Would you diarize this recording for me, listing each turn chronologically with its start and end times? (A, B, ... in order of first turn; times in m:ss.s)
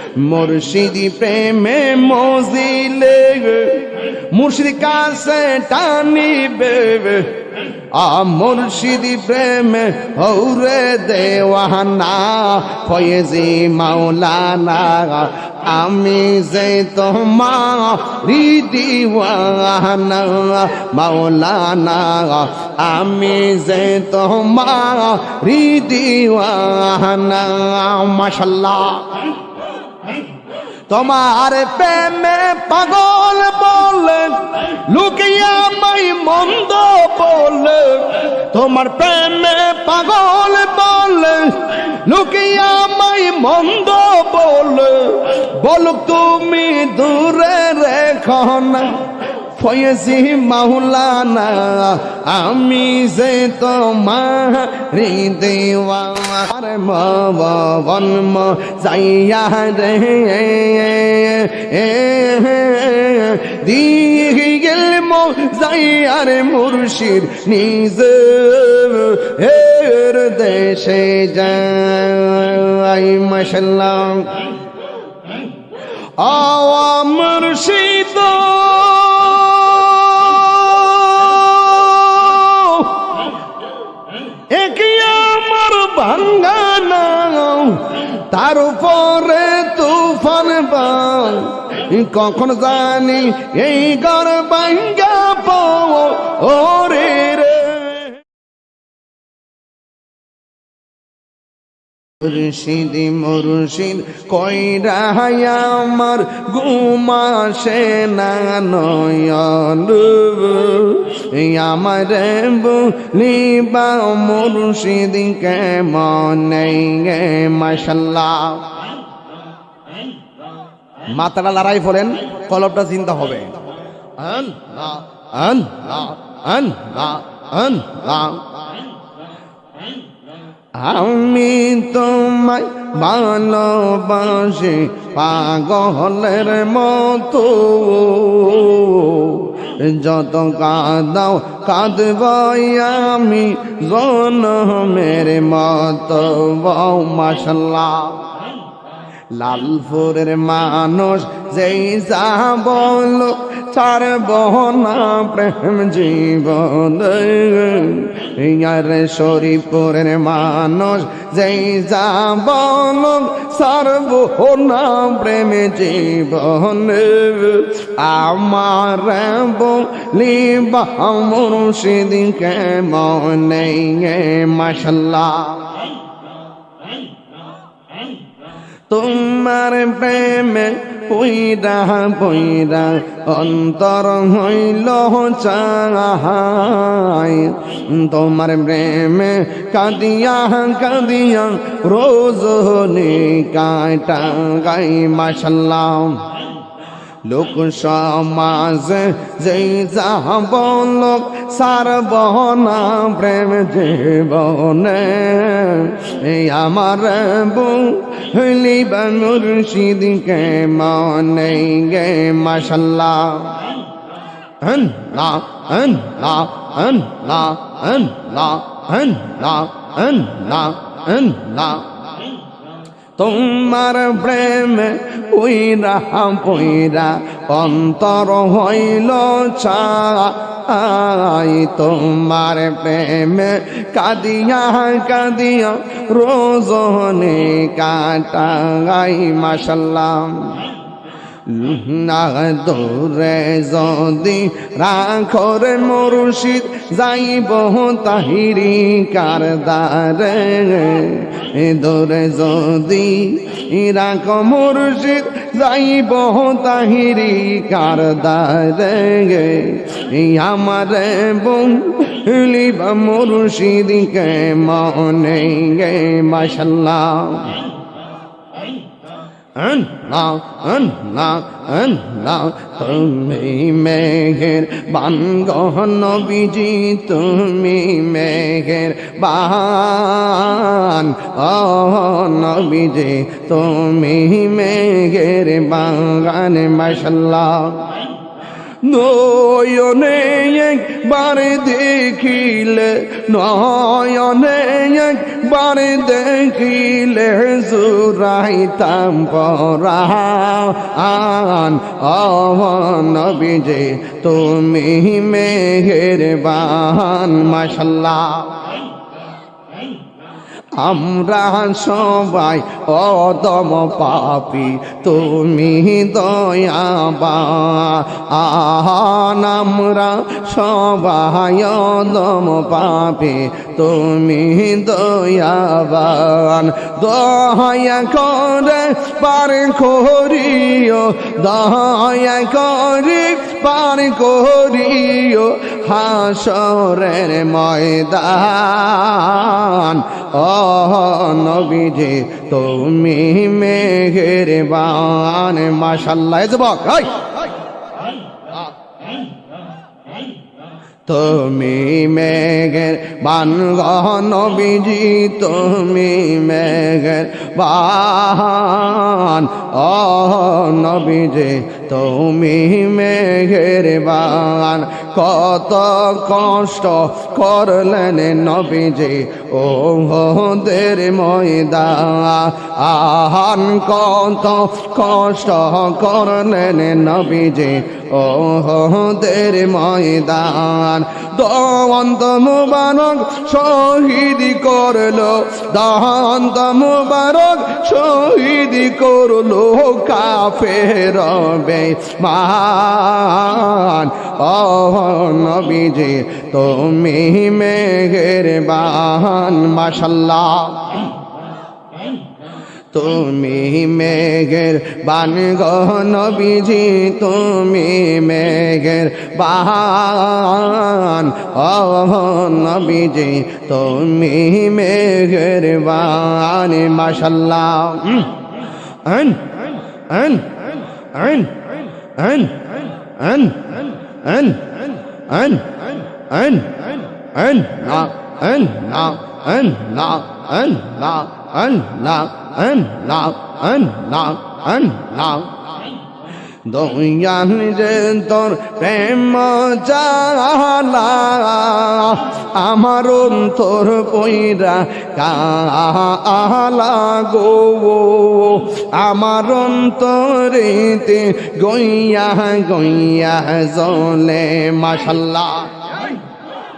0:00.2-0:29.3 A
0:30.9-1:14.5 A
1:16.2-1:23.3 A
1:24.5-1:38.2 A
1:42.2-1:58.7 A
2:01.1-2:03.6 A
2:04.2-2:08.6 A
2:10.8-2:28.3 A
2:29.3-2:55.8 A
2:58.9-3:16.3 A
3:17.2-3:33.7 A
3:34.6-3:41.9 A
3:43.2-4:00.7 A
4:01.5-4:27.6 A
4:29.6-4:48.0 A
4:48.8-5:08.7 A
5:10.7-5:47.4 A
5:51.1-6:41.1 A
6:42.9-6:58.4 A
6:59.0-7:15.8 A
7:16.6-7:36.1 A